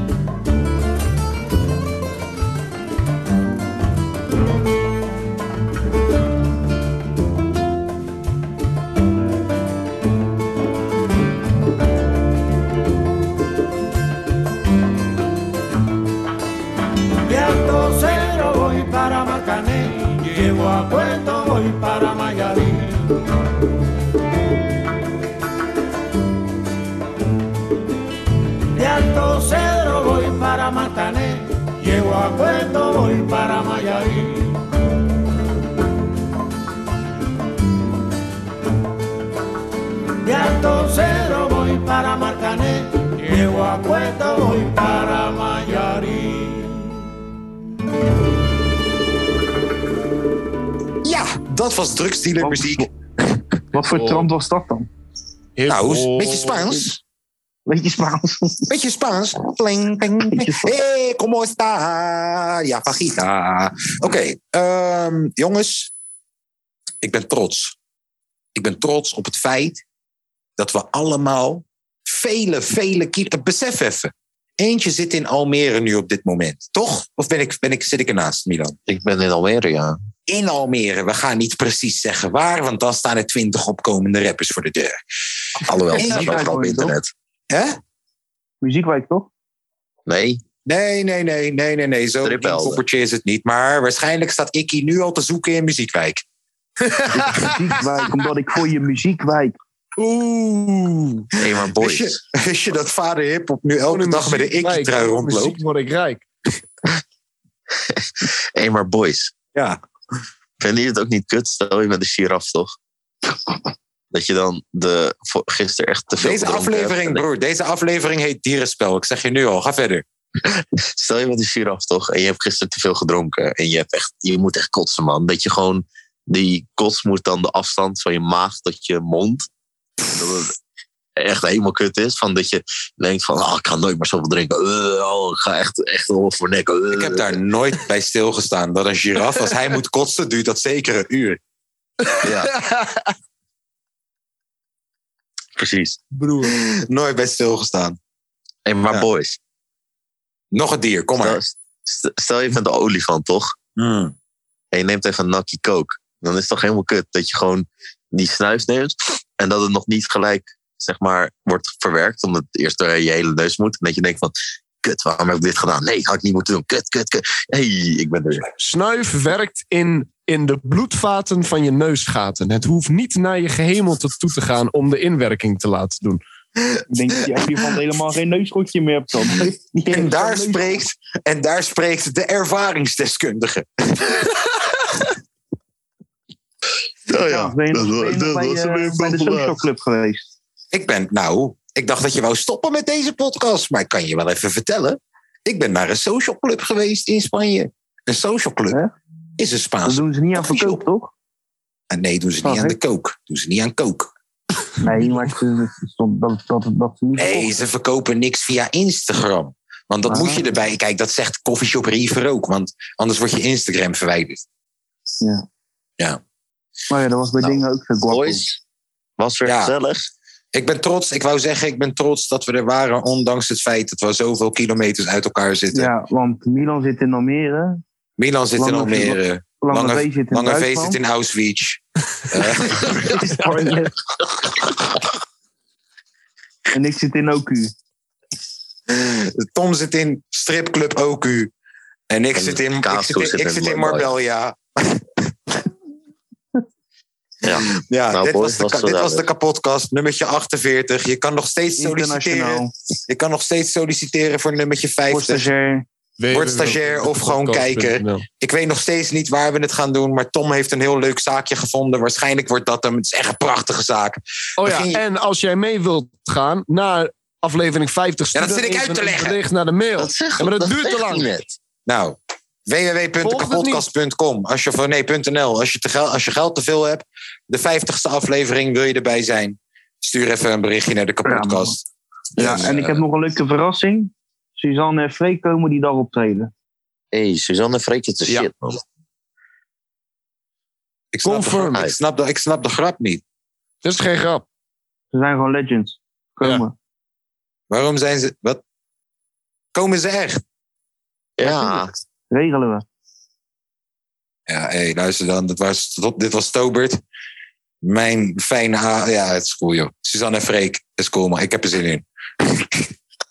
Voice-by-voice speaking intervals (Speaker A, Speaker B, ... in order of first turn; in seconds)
Speaker A: 17.2-23.1, 28.7-34.6, 40.2-46.9
Speaker B: 51.0-52.9, 55.7-57.0, 58.7-65.9, 67.0-67.8, 68.5-69.8, 70.6-78.7, 80.3-85.0, 85.9-86.5, 87.5-87.8, 90.7-96.2, 101.5-105.6, 116.2-120.0, 136.9-141.4, 146.4-148.0, 150.5-151.4, 153.8-154.1, 179.9-184.2, 190.7-198.8, 199.4-200.8, 201.9-204.1, 207.2-214.4, 219.4-219.7, 220.5-225.9, 228.2-233.2, 238.9-241.5, 242.1-245.3, 247.5-255.5, 256.3-265.0, 268.3-269.4, 271.9-281.8, 282.4-283.0, 291.1-293.2, 297.7-298.6, 299.7-300.4, 304.5-307.0, 307.8-312.9
Speaker C: 52.4-52.9, 53.7-54.9, 57.7-58.7, 60.2-60.7, 85.9-87.0, 88.6-89.3, 97.1-99.5, 176.9-180.8, 187.2-190.3, 199.8-201.1, 202.4-202.8, 204.8-207.5, 210.1-210.4, 216.9-218.4, 225.7-227.8, 228.6-231.0, 232.8-233.9, 236.7-237.7, 251.8-252.7, 255.1-255.8, 281.2-281.8, 282.4-286.5, 295.1-296.7, 301.4-301.8, 302.3-302.8
Speaker D: 53.7-54.3, 55.6-56.7, 96.8-97.4, 100.0-101.2, 103.9-106.2, 142.1-143.0, 146.2-146.5, 168.6-176.2, 256.2-258.2, 264.6-271.4, 273.2-273.9, 291.2-291.8, 293.8-294.4
Speaker E: 78.9-80.0, 85.7-87.1, 90.0-90.4, 92.2-92.8, 101.4-102.2, 107.8-109.3, 110.6-112.7, 114.1-117.2, 120.4-129.5, 130.0-130.5, 131.2-137.4, 142.2-142.5, 145.6-146.0, 148.7-149.4, 151.2-153.5, 154.7-168.5, 187.1-189.6, 217.4-218.6, 219.2-220.1, 242.4-244.1, 247.4-249.2, 270.0-271.5, 282.4-282.8, 287.1-288.8, 301.4-302.0